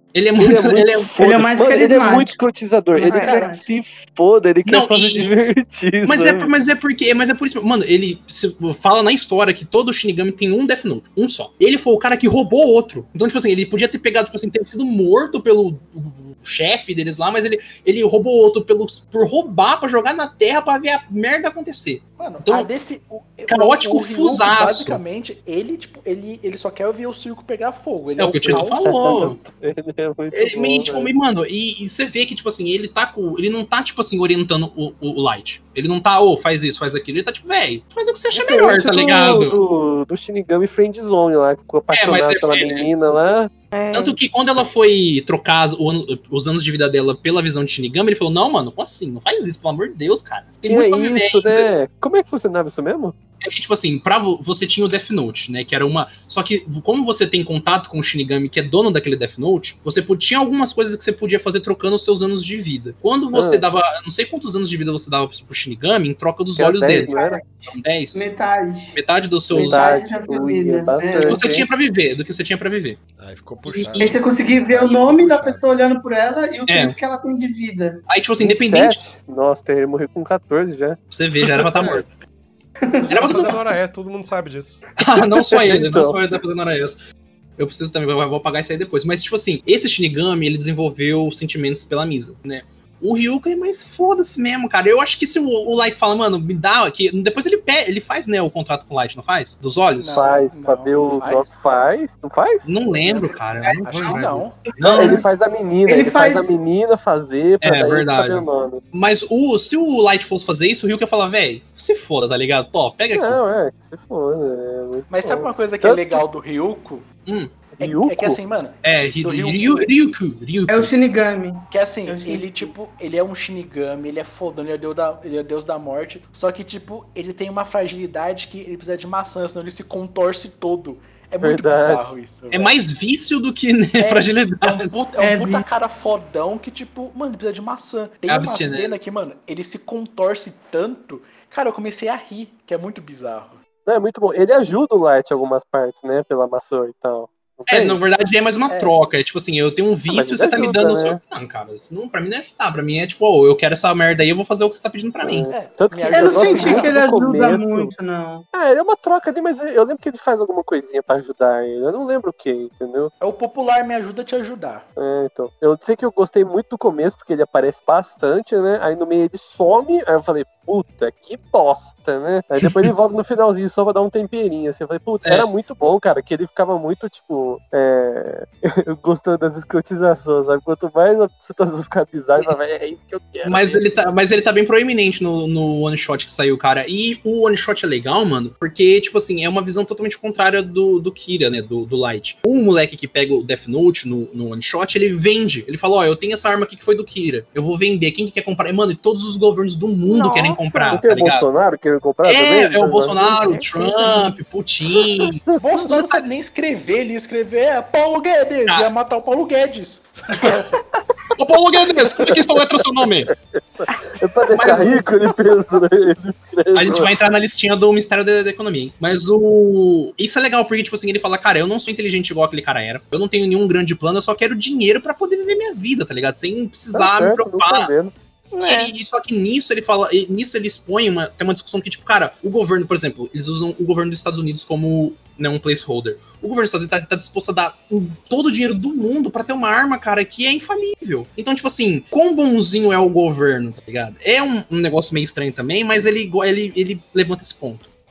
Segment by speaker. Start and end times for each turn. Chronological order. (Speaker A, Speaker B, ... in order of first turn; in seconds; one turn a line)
Speaker A: 0.1-1.2
Speaker B: 0.4-6.5
Speaker C: 1.2-2.4
Speaker C: 2.9-3.6
Speaker D: 3.1-3.4
Speaker A: 4.7-5.3
Speaker A: 6.0-22.7
Speaker E: 22.2-29.3
Speaker A: 23.5-25.0
Speaker A: 28.2-29.4
Speaker B: 28.4-31.1
Speaker A: 30.3-39.6
Speaker B: 38.3-43.5
Speaker A: 41.9-42.9
Speaker D: 43.7-44.1
Speaker A: 43.9-51.6
Speaker B: 50.6-53.1
Speaker A: 53.4-68.3
Speaker B: 63.3-63.6
Speaker B: 66.5-67.4
Speaker C: 66.9-67.6
Speaker C: 68.1-69.0
Speaker A: 68.9-69.9
Speaker C: 69.5-71.4
Speaker B: 69.5-71.7
Speaker A: 71.2-73.0
Speaker F: 73.2-75.9
Speaker A: 73.6-74.2
Speaker C: 74.0-78.0
Speaker A: 76.7-77.0
Speaker A: 78.1-79.0
Speaker B: 78.4-81.0
Speaker A: 81.1-82.1
Speaker F: 81.8-82.0
Speaker C: 82.9-83.6
Speaker F: 82.9-84.8
Speaker A: 83.1-83.6
Speaker A: 85.0-86.9
Speaker B: 85.5-86.2
Speaker A: 87.6-100.1
Speaker E: 100.0-101.7
Speaker B: 100.1-103.3
Speaker A: 102.6-105.2
Speaker C: 103.6-104.2
Speaker E: 103.8-104.6
Speaker C: 104.7-105.3
Speaker B: 104.9-108.8
Speaker C: 105.8-106.6
Speaker A: 107.6-113.4
Speaker B: 113.1-116.2
Speaker E: 115.1-117.0
Speaker A: 117.3-117.5
Speaker E: 117.8-119.9
Speaker B: 117.8-118.4
Speaker A: 118.8-120.9
Speaker C: 120.7-122.7
Speaker E: 121.7-132.8
Speaker B: 131.4-132.1
Speaker A: 132.5-135.0
Speaker E: 134.0-143.6
Speaker C: 135.2-135.6
Speaker A: 138.3-139.0
Speaker B: 143.8-148.0
Speaker A: 147.7-155.5
Speaker E: 148.7-149.0
Speaker B: 150.1-151.2
Speaker B: 155.2-157.9
Speaker E: 155.5-156.9
Speaker C: 156.1-158.4
Speaker B: 158.5-163.1
Speaker E: 163.2-164.8
Speaker B: 165.0-183.9
Speaker A: 183.4-201.4
Speaker D: 200.1-201.0
Speaker B: 200.9-204.2
Speaker A: 202.2-206.2
Speaker D: 203.5-204.1
Speaker E: 205.6-210.7
Speaker A: 211.3-213.3
Speaker B: 212.0-212.4
Speaker B: 213.3-217.1
Speaker A: 214.5-215.1
Speaker A: 216.7-227.9
Speaker B: 226.9-228.1
Speaker D: 228.5-228.9
Speaker A: 228.6-247.9